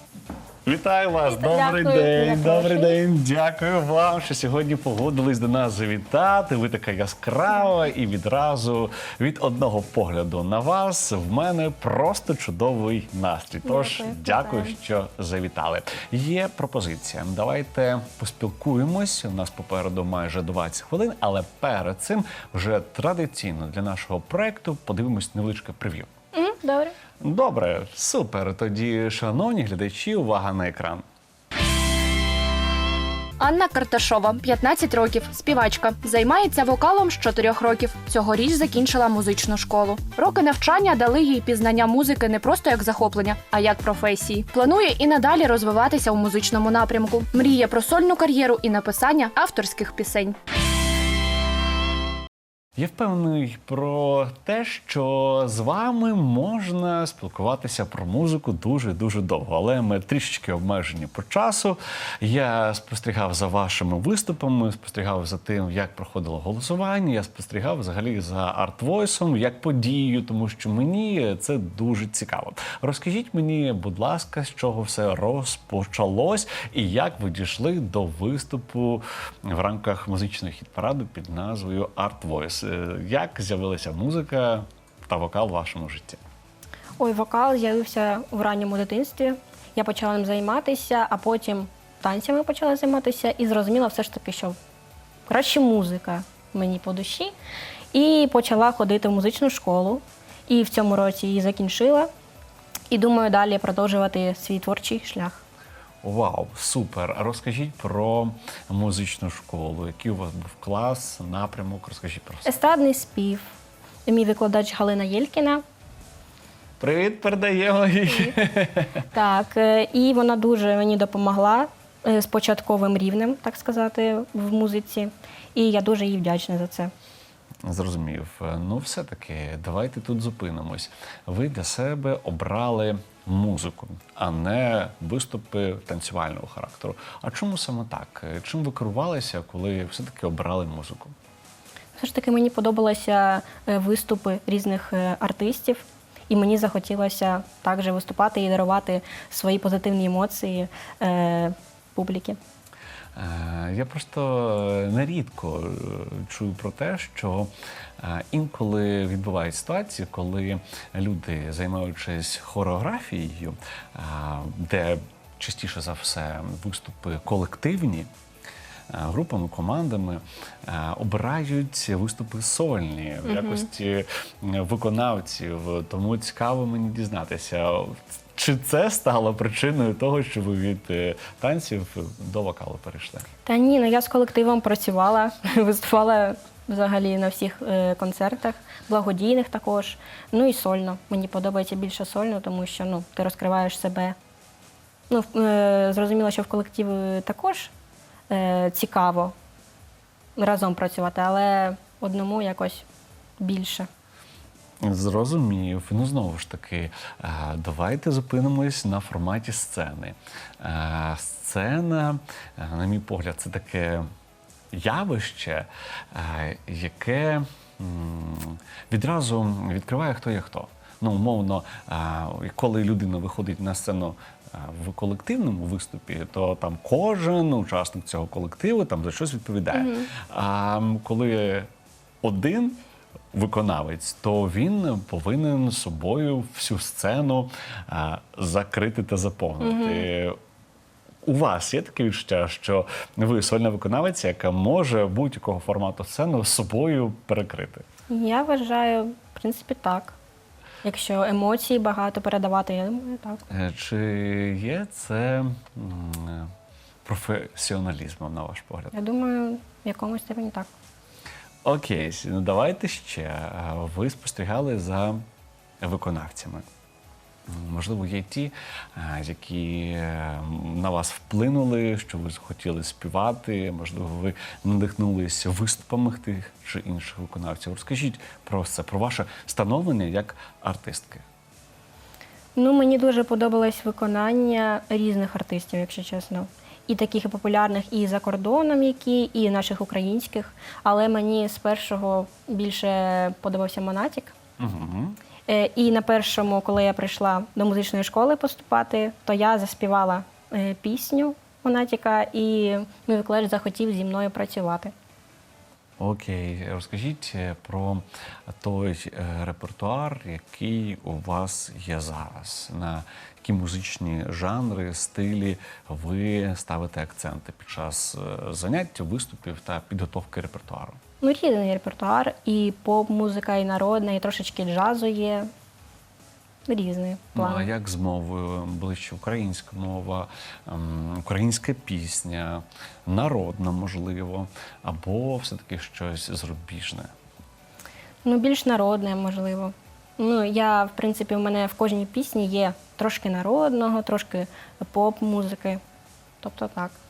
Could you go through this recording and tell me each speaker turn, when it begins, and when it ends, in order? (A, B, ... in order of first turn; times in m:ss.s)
0:00.6-0:26.1 A
0:01.3-0:03.0 B
0:13.6-0:14.8 B
0:26.3-0:27.0 B
0:27.2-0:31.0 A
0:33.4-0:50.4 C
0:52.8-1:26.2 A
1:27.0-1:34.6 B
1:35.3-1:37.3 B
1:37.9-1:42.1 B
1:42.9-1:45.4 B
1:46.0-1:52.6 A
1:52.5-1:53.5 B
1:54.1-1:55.6 B
1:56.8-1:59.0 A
1:58.1-1:58.3 B
1:59.1-2:06.9 B
2:07.6-2:21.1 A
2:22.0-2:32.4 B
2:33.2-2:48.1 A
2:48.9-3:03.3 A
2:53.3-2:53.6 B
3:03.5-3:14.2 B
3:15.1-3:17.7 B
3:18.3-3:19.3 B
3:20.4-3:22.9 B
3:23.4-3:23.9 B
3:24.8-3:34.1 A
3:34.7-3:51.7 A
3:49.7-3:50.1 B
3:52.2-3:52.8 A
3:53.3-4:00.4 A
3:59.6-4:00.1 B
4:01.2-4:07.8 A
4:08.1-4:10.2 B
4:10.8-4:13.4 B
4:13.5-4:16.5 A
4:17.0-4:18.9 A
4:18.9-4:20.7 B
4:21.6-4:25.2 A
4:25.8-4:26.7 A
4:27.5-4:41.2 A
4:42.6-4:54.3 B
4:54.6-4:55.2 A
4:55.5-5:04.9 B
5:06.0-5:21.0 A
5:21.2-5:25.5 B
5:26.7-5:27.7 B
5:27.4-5:37.1 A
5:38.2-5:45.8 B
5:46.4-5:47.0 B